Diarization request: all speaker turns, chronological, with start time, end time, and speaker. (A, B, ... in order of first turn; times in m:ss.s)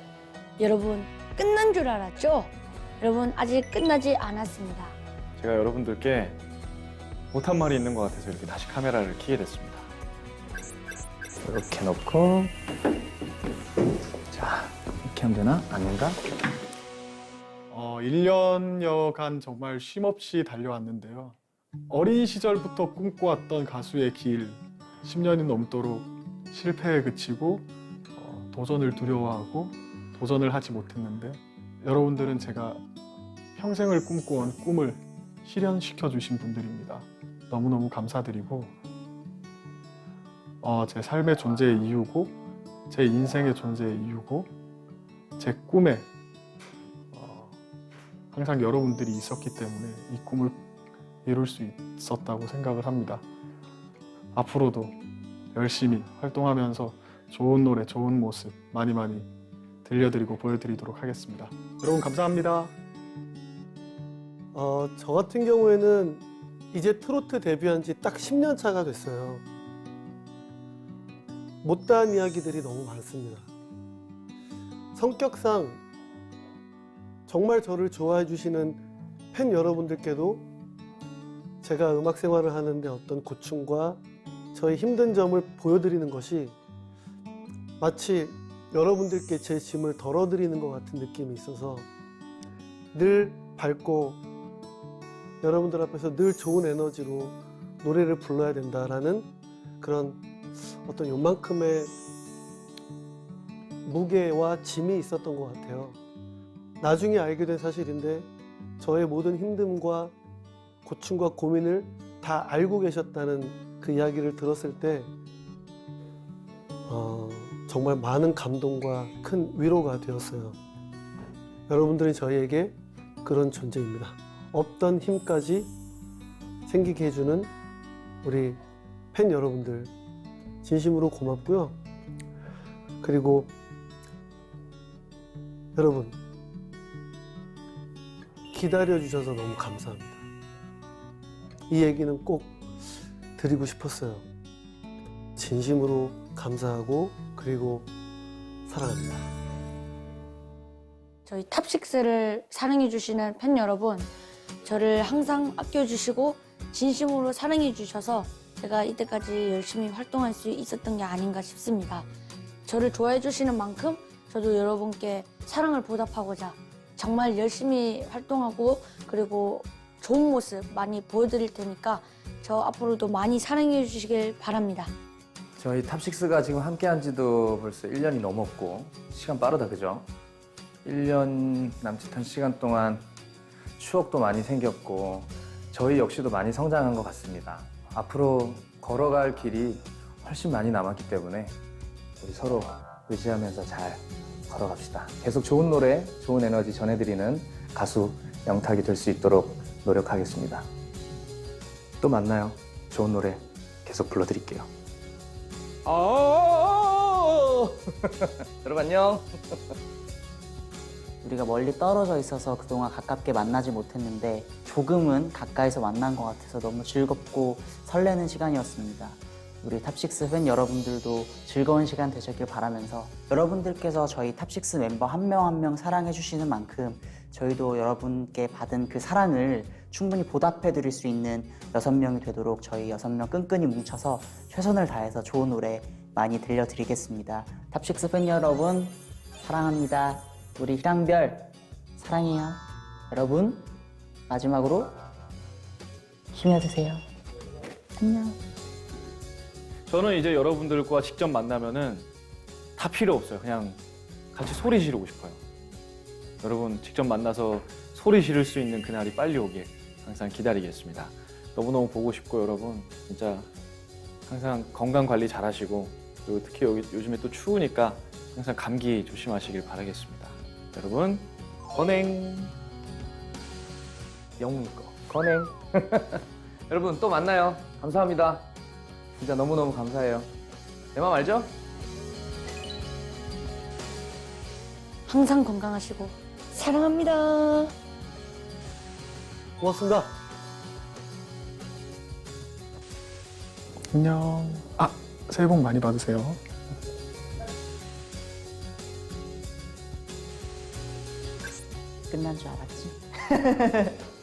0:00.6-0:05.0 A
0:05.4-0:06.4 B
0:07.3-0:09.9 B
0:11.4-0:12.5 C
0:14.3-0:16.2 C
0:17.7-0:21.4 D
0:21.9-0:32.8 D
0:33.6-0:38.7 D
0:40.6-0:42.4 D
0:42.9-0:44.5 D
0:45.4-0:46.1 D
0:47.1-0:47.6 D
0:48.3-0:50.6 D
0:51.2-0:53.2 D
0:54.3-0:54.9 D
0:55.5-0:59.3 D
0:59.8-1:02.7 D
1:04.5-1:09.4 E
1:11.6-1:13.5 E
1:14.9-1:15.8 E
1:17.3-1:20.5 E
1:21.6-1:24.0 E
1:24.5-1:26.6 E
1:27.8-1:31.9 E
1:32.9-1:34.2 E
1:35.4-1:40.2 E
1:40.8-1:41.9 E
1:43.8-1:46.0 E
1:46.8-1:50.1 E
1:50.8-1:55.1 E
1:56.8-2:00.6 E
2:01.7-2:05.7 E
2:06.7-2:07.5 E
2:08.2-2:08.6 E
2:09.1-2:09.9 E
2:10.6-2:11.8 E
2:13.0-2:13.5 E
2:15.7-2:16.2 E
2:18.5-2:20.2 E
2:21.7-2:22.6 E
2:23.4-2:24.3 E
2:25.4-2:27.9 E
2:28.6-2:29.3 E
2:31.2-2:34.1 A
2:34.6-2:42.1 A
2:42.6-2:54.9 A
2:55.6-3:00.1 C
3:00.8-3:03.0 C
3:03.8-3:11.6 C
3:12.2-3:20.7 C
3:22.0-3:24.7 C
3:25.8-3:29.7 C
3:31.2-4:03.7 F
4:04.3-4:05.0 F
4:06.3-4:07.0 F
4:08.0-4:08.4 F
4:09.9-4:12.1 B
4:12.8-4:13.8 B
4:14.3-4:15.4 B
4:16.4-4:23.5 B
4:24.3-4:31.3 B
4:31.7-4:32.3 C
4:31.9-4:32.5 B
4:34.4-4:38.5 C
4:39.1-4:40.3 C
4:40.9-4:41.5 C
4:45.1-4:47.7 A
4:49.6-4:50.1 E
4:53.9-4:56.4 D
5:02.1-5:04.0 F